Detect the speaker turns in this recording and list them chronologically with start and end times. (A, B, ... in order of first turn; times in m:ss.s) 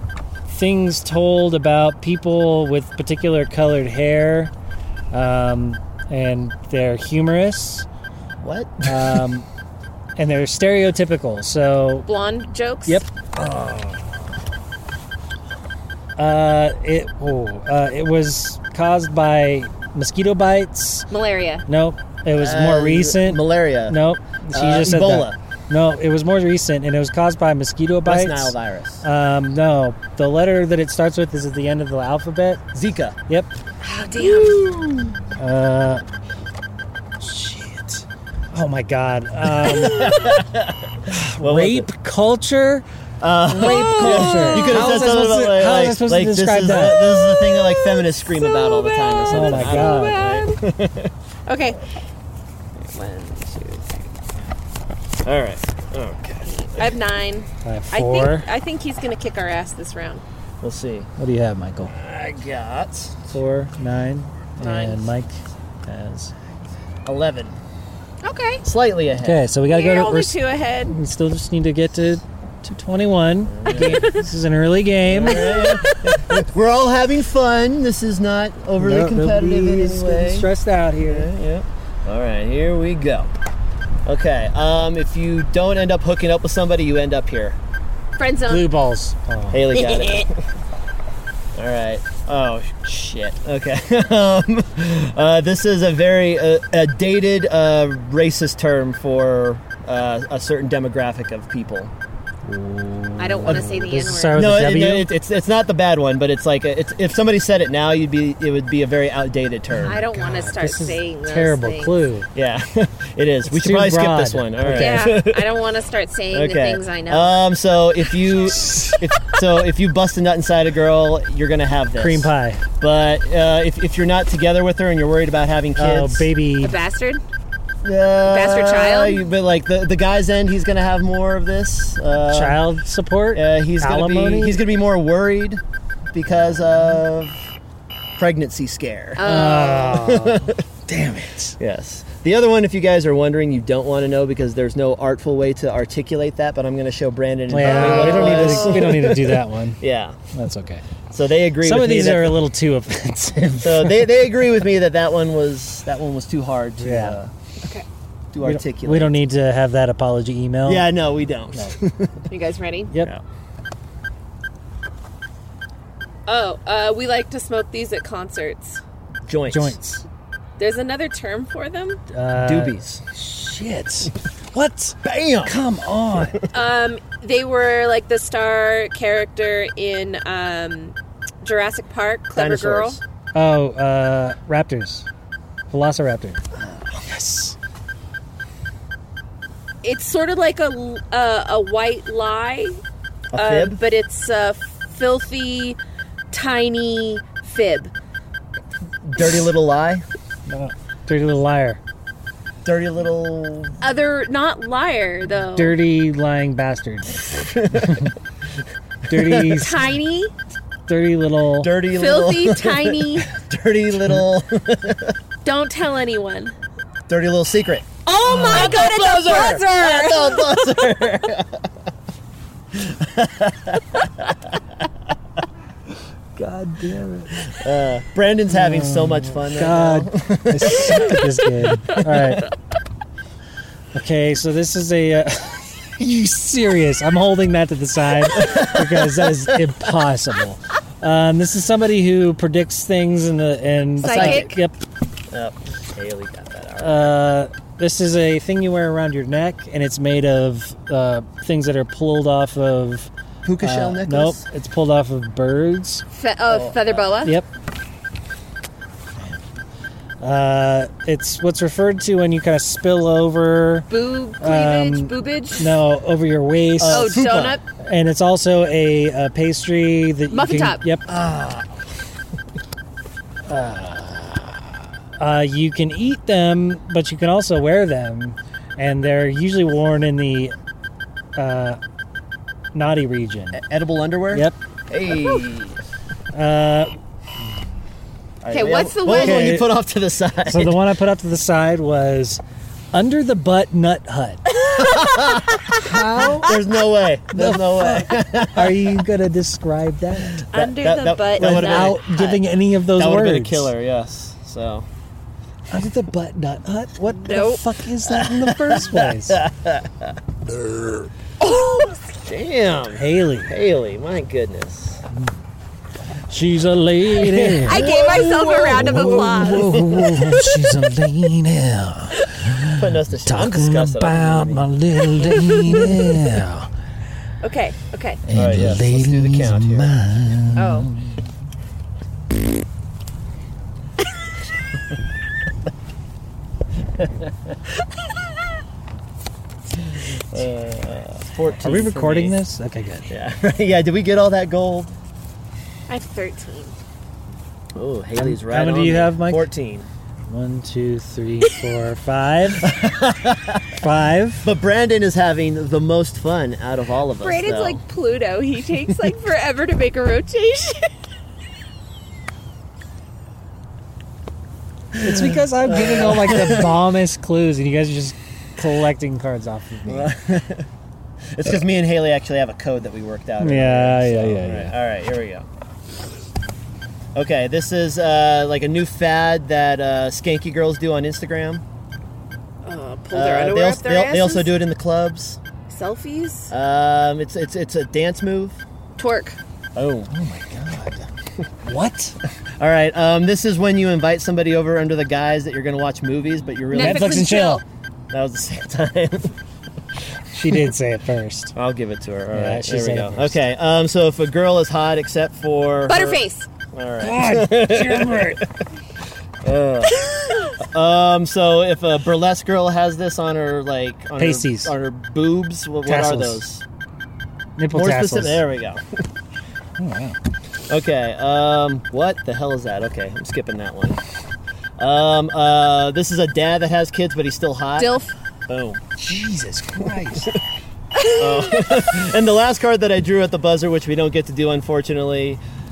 0:00.5-0:04.5 A
0:05.1-0:07.9 A
0:08.4-0:09.2 B
0:08.8-0:09.5 A
0:10.2-0:12.1 A
0:12.1-0:13.0 C
0:12.9-0:14.0 A
0:16.2-0:21.1 A
0:21.1-0:21.7 C
0:21.7-0:32.6 A
0:22.4-0:24.0 B
0:24.5-0:25.4 B
0:28.0-0:29.0 B
0:32.7-0:33.2 B
0:33.8-0:34.8 C
0:34.2-0:35.2 B
0:35.4-0:36.0 A
0:37.2-0:40.2 A
0:39.6-0:41.9 B
0:39.9-0:40.4 C
0:41.1-0:42.8 A
0:43.2-0:51.1 B
0:43.5-0:47.1 A
0:43.5-0:45.0 C
0:47.5-0:50.6 C
0:49.3-0:50.2 A
0:51.5-0:51.8 C
0:52.8-0:54.1 C
0:55.2-0:57.0 B
0:56.4-1:00.2 C
0:57.6-0:58.5 A
1:00.6-1:01.1 B
1:01.2-1:01.9 A
1:01.9-1:03.3 B
1:03.3-1:06.3 A
1:04.6-1:05.1 C
1:07.0-1:07.6 B
1:08.2-1:08.6 C
1:08.6-1:09.4 B
1:09.2-1:15.6 A
1:09.7-1:11.0 C
1:13.5-1:14.0 B
1:13.7-1:14.3 C
1:15.0-1:20.5 B
1:15.2-1:16.2 C
1:18.8-1:21.3 A
1:21.0-1:23.4 B
1:24.1-1:27.6 B
1:28.2-1:28.7 C
1:28.5-1:29.7 A
1:29.5-1:30.5 B
1:29.8-1:30.3 C
1:31.6-1:41.9 B
1:42.4-1:45.1 A
1:43.2-1:44.5 C
1:44.3-1:50.0 B
1:49.7-1:52.3 A
1:49.8-1:52.0 C
1:52.4-1:55.5 B
1:53.5-1:55.1 A
1:54.7-1:57.4 C
1:56.3-2:06.3 B
1:58.4-1:59.0 A
2:02.0-2:02.6 A
2:05.8-2:06.8 A
2:06.6-2:07.2 C
2:07.8-2:12.6 B
2:08.2-2:09.2 C
2:12.3-2:14.6 A
2:13.3-2:15.6 B
2:16.1-2:17.5 B
2:18.2-2:20.6 B
2:19.2-2:20.1 C
2:19.2-2:21.6 A
2:21.6-2:30.2 B
2:27.5-2:29.8 A
2:27.6-2:29.0 C
2:30.3-2:30.8 A
2:31.1-2:32.4 B
2:31.6-2:34.0 A
2:33.6-2:37.3 B
2:36.8-2:37.2 A
2:38.3-2:39.2 B
2:38.4-2:40.9 A
2:40.6-2:42.3 B
2:42.3-2:42.9 C
2:46.3-2:48.8 C
2:49.3-2:49.8 B
2:49.5-2:50.0 A
2:50.6-2:52.0 C
2:52.1-2:56.4 A
2:52.4-2:53.0 B
2:55.0-2:55.5 B
2:56.5-3:03.0 C
3:02.4-3:03.0 B
3:03.4-3:05.1 A
3:05.7-3:06.4 A
3:06.6-3:07.0 B
3:07.0-3:07.6 A
3:09.8-3:12.8 C
3:13.3-3:13.8 B
3:13.3-3:15.8 C
3:16.3-3:17.9 C
3:19.0-3:20.0 B
3:20.5-3:21.8 A
3:22.6-3:23.8 B
3:23.8-3:25.8 C
3:25.6-3:28.1 A
3:27.3-3:28.1 B
3:29.1-3:29.8 A
3:29.1-3:29.6 B
3:29.4-3:30.3 C
3:30.9-3:31.7 A
3:31.6-3:35.2 B
3:31.9-3:33.3 C
3:35.4-3:36.5 C
3:37.1-3:41.7 B
3:38.1-3:40.9 C
3:42.7-3:44.6 B
3:46.4-3:47.5 A
3:46.8-3:52.4 B
3:48.5-3:52.5 A
3:53.9-4:04.8 A
3:58.3-3:59.6 B
4:04.0-4:04.5 C
4:04.0-4:04.6 B
4:05.3-4:07.1 B
4:06.8-4:16.0 A
4:13.4-4:14.4 B
4:16.1-4:17.4 C
4:16.5-4:17.3 B
4:20.2-4:23.9 A
4:23.9-4:25.7 C
4:24.4-4:31.1 A
4:26.8-4:27.6 B
4:26.9-4:27.6 C
4:30.3-4:30.8 C
4:31.1-4:31.7 B
4:33.5-4:40.6 A
4:41.4-4:41.8 A
4:42.7-4:43.6 A
4:43.5-4:45.8 B
4:45.1-4:45.4 C
4:46.3-4:47.0 A
4:48.4-4:50.8 B
4:48.5-4:49.6 C
4:49.1-4:49.7 A
4:50.4-4:52.4 A
4:52.9-4:54.4 A
4:54.5-4:55.9 C
4:54.7-4:55.7 B
4:55.7-4:56.5 A
4:56.4-4:59.0 B
4:57.3-5:00.5 A
5:00.4-5:02.0 B
5:00.5-5:02.4 C
5:01.4-5:03.7 A
5:03.0-5:04.9 B
5:05.7-5:09.4 A
5:07.2-5:07.6 C
5:08.0-5:11.1 B
5:11.5-5:11.9 C
5:12.2-5:15.0 B
5:13.0-5:13.5 A
5:16.3-5:17.8 A
5:17.2-5:20.5 B
5:17.7-5:19.8 C
5:18.7-5:26.7 A
5:22.7-5:24.7 B
5:25.2-5:25.9 C
5:27.4-5:28.2 C
5:28.2-5:31.3 A
5:28.3-5:30.0 B
5:30.6-5:30.9 C
5:37.0-5:37.6 B
5:39.8-5:42.4 B
5:41.5-5:43.1 A
5:43.1-5:44.9 B
5:45.9-5:46.8 C
5:47.8-5:49.9 B
5:48.2-5:49.5 A
5:50.3-5:52.7 A
5:52.6-5:53.7 B
5:53.7-5:54.5 A
5:54.4-5:57.8 B
5:57.2-6:00.9 C
6:04.9-6:06.8 B
6:05.0-6:10.1 A
6:09.9-6:10.7 B
6:11.3-6:15.5 B
6:13.4-6:14.7 A
6:17.2-6:21.6 B
6:22.6-6:24.5 C
6:23.1-6:25.4 B
6:25.7-6:26.5 C
6:26.5-6:28.6 B
6:29.0-6:29.4 C
6:29.8-6:30.1 B
6:30.1-6:31.1 A
6:31.6-6:32.2 A
6:32.6-6:37.2 B
6:36.7-6:37.6 C
6:36.8-6:37.6 A
6:38.1-6:39.3 B
6:40.4-6:41.5 A
6:41.6-6:46.2 B
6:42.3-6:43.4 A
6:45.9-6:46.5 C
6:46.7-6:48.4 B
6:47.0-6:48.4 A
6:49.4-6:50.0 B
6:49.8-6:50.6 C
6:50.6-6:56.6 B
6:54.2-6:54.7 A
6:55.9-6:56.5 A
6:57.6-6:58.4 A
6:57.7-6:59.0 B
6:59.8-7:00.2 A
7:00.7-7:04.0 B
7:04.8-7:07.9 B
7:07.8-7:08.1 C
7:08.5-7:08.8 B
7:09.0-7:10.4 A
7:09.9-7:10.4 B
7:11.0-7:11.6 C
7:11.1-7:15.4 B